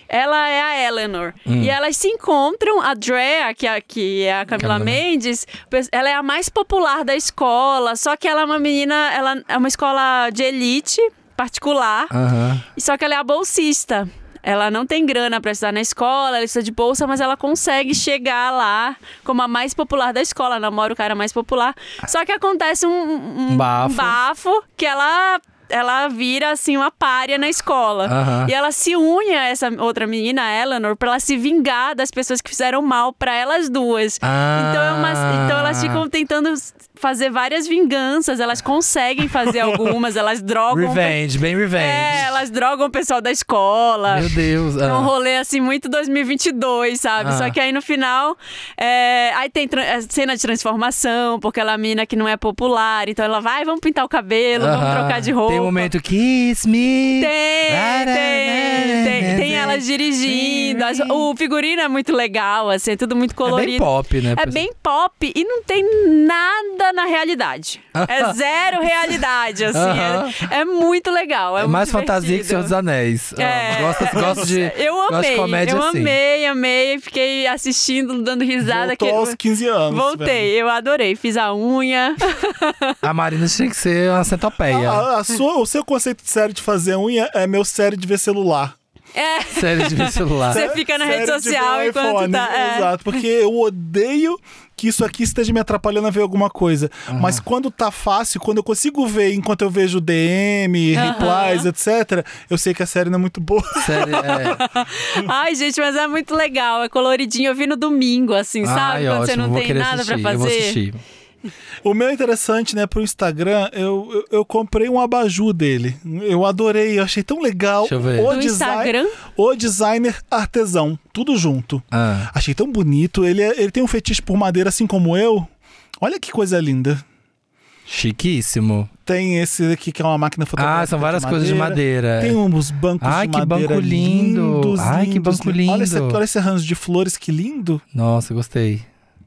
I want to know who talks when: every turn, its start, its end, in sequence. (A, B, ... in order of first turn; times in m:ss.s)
0:00.1-0:12.1 A
0:01.5-0:01.7 B
0:04.6-0:05.0 B
0:12.1-0:12.6 B
0:12.8-0:41.2 A
0:23.5-0:24.2 B
0:28.0-0:28.5 B
0:34.2-0:36.0 B
0:39.5-0:39.8 C
0:40.7-0:42.3 B
0:41.8-0:55.9 A
0:44.1-0:45.1 B
0:47.2-0:47.6 B
0:54.6-1:01.2 B
0:57.1-1:12.7 A
1:03.4-1:04.6 B
1:07.9-1:08.4 B
1:09.7-1:10.4 B
1:11.6-1:16.2 B
1:13.4-1:19.4 A
1:18.6-1:20.5 C
1:19.9-1:23.0 A
1:23.0-1:25.0 B
1:24.7-1:28.8 C
1:29.1-1:32.9 A
1:29.5-1:30.6 B
1:30.5-1:44.6 C
1:37.1-1:37.4 B
1:40.9-1:41.6 A
1:43.8-1:44.6 B
1:44.1-1:50.8 A
1:48.6-1:51.0 B
1:51.8-2:07.0 C
1:57.8-1:58.3 B
1:58.3-1:59.2 A
2:01.9-2:02.3 B
2:07.9-2:08.9 B
2:09.0-2:17.8 C
2:10.6-2:12.4 B
2:13.0-2:16.2 B
2:17.9-2:18.8 B